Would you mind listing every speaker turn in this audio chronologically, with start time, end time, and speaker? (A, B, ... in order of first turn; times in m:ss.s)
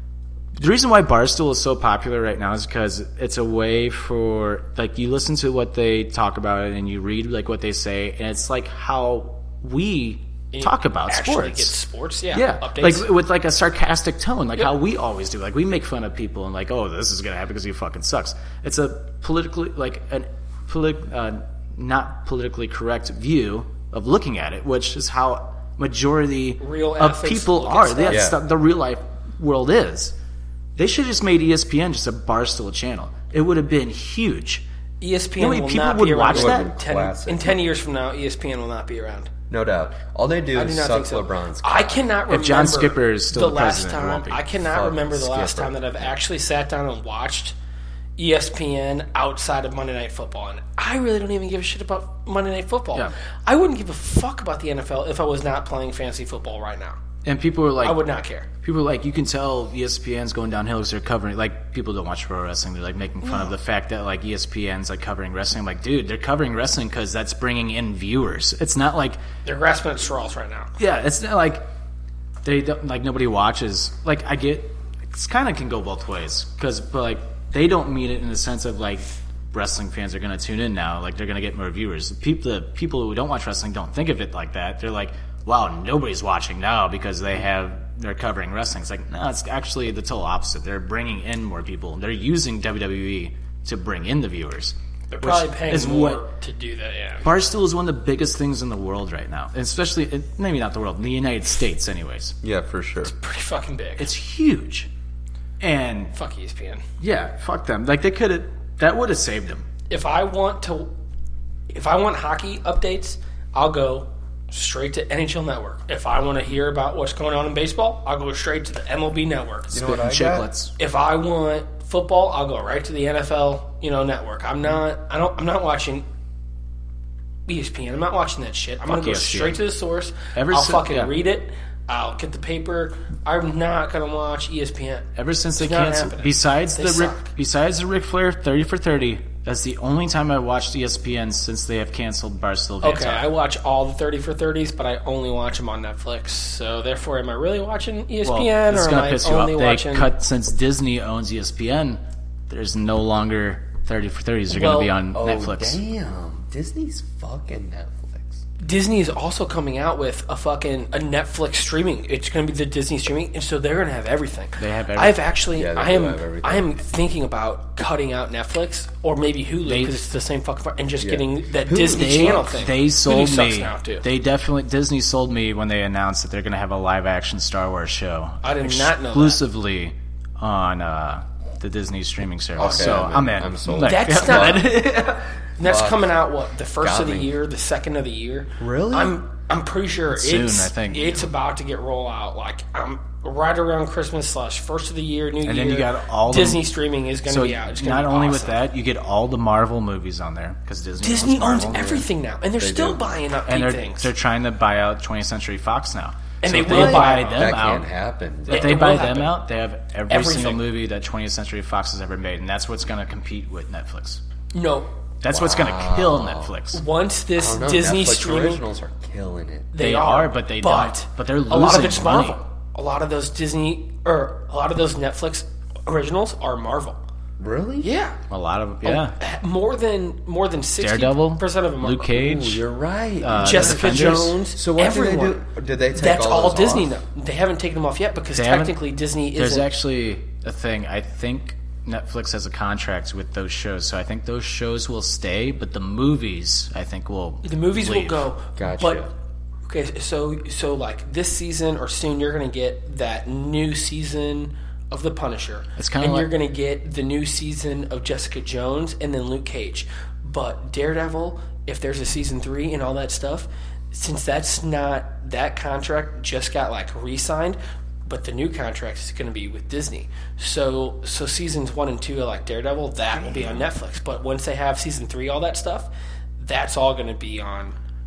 0:00.6-0:11.7 A
0:10.5-0:13.1 B
0:12.3-0:30.1 A
0:26.6-0:28.2 B
0:28.1-0:28.4 C
0:30.8-0:34.6 A
0:35.0-0:39.3 B
0:35.4-0:36.7 A
0:36.3-0:37.6 C
0:39.5-0:42.0 C
0:40.5-0:47.6 B
0:42.3-0:44.4 A
0:44.6-0:46.2 C
0:48.2-0:57.0 B
0:57.2-0:58.0 A
0:57.8-0:58.5 B
0:58.6-1:09.2 A
1:09.4-1:10.8 B
1:10.8-1:11.7 A
1:12.4-1:36.2 A
1:35.1-1:37.3 B
1:37.2-1:42.3 A
1:42.4-1:43.1 C
1:43.0-1:44.1 B
1:44.0-1:44.9 A
1:45.6-1:46.1 A
1:46.1-1:46.8 B
1:47.0-1:49.6 A
1:49.9-1:50.9 B
1:51.7-1:59.7 B
1:59.7-2:00.5 C
1:59.7-2:00.7 A
2:00.8-2:06.0 B
2:07.5-2:17.3 B
2:08.8-2:09.6 A
2:10.3-2:11.1 A
2:15.2-2:23.2 A
2:22.8-2:30.1 B
2:28.2-2:35.8 A
2:34.5-2:34.9 B
2:35.1-2:38.4 C
2:38.6-2:54.0 B
2:44.6-2:45.2 A
2:45.5-2:46.7 C
2:49.6-2:50.0 A
2:51.0-2:52.7 C
2:51.9-3:05.3 A
2:58.4-2:59.4 B
3:02.6-3:04.7 C
3:02.6-3:03.1 B
3:03.8-3:04.7 B
3:05.6-3:18.6 B
3:05.6-3:06.1 C
3:06.8-3:07.3 C
3:08.6-3:09.2 C
3:10.1-3:11.2 A
3:15.4-3:16.7 A
3:17.3-3:21.9 A
3:21.0-3:24.1 B
3:21.5-3:22.0 C
3:22.6-3:23.0 C
3:23.5-3:27.9 A
3:26.4-3:27.6 B
3:26.6-3:29.1 C
3:28.5-3:34.2 A
3:28.5-3:29.4 B
3:30.1-3:30.6 B
3:34.5-3:34.9 B
3:35.2-3:36.8 A
3:35.3-3:36.5 C
3:36.7-3:38.6 B
3:37.4-3:39.7 C
3:39.7-3:47.0 B
3:39.8-3:42.4 A
3:47.4-3:47.9 C
3:47.8-3:48.2 B
3:48.3-3:49.1 A
3:48.8-3:52.0 B
3:50.8-3:52.6 A
3:52.0-3:57.0 C
3:53.2-3:54.3 A
3:53.4-3:55.4 B
3:55.9-3:59.7 B
3:58.3-3:58.8 A
3:59.3-4:08.2 A
4:07.4-4:09.1 B
4:08.6-4:09.1 C
4:09.6-4:37.8 B
4:15.8-4:16.3 A
4:33.1-4:33.7 C